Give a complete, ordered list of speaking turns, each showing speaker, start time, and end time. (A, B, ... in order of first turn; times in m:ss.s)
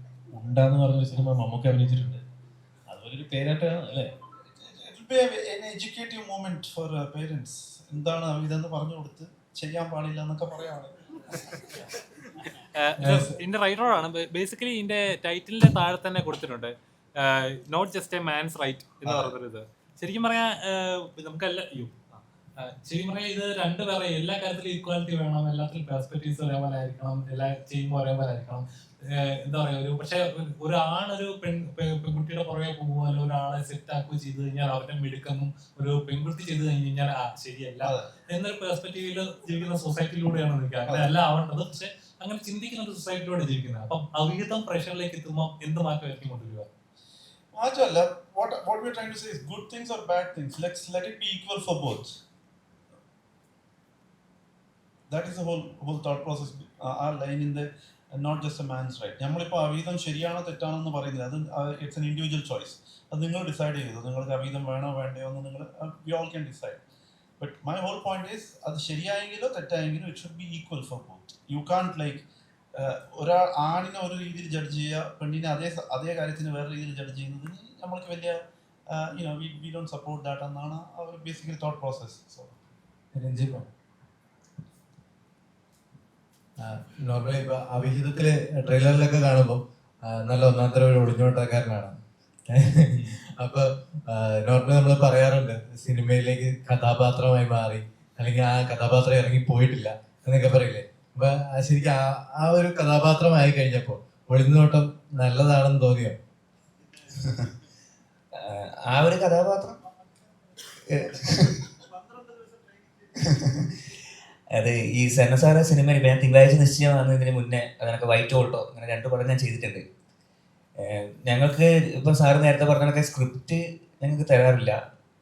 0:00.4-0:02.2 A
0:02.9-0:04.0 A
0:04.6-0:10.9 B
0:12.8-0:46.7 C
0:19.0-0:19.3 B
0:37.8-0:38.1 B
0:47.5-0:52.1 B
0:55.1-1:06.8 B
1:07.4-1:12.2 B
1:12.8-1:22.5 B
1:23.1-1:23.7 D
1:26.6-1:46.2 D
1:48.4-1:49.8 E
1:50.9-1:51.5 E
1:54.5-1:59.8 E
2:00.8-2:04.8 E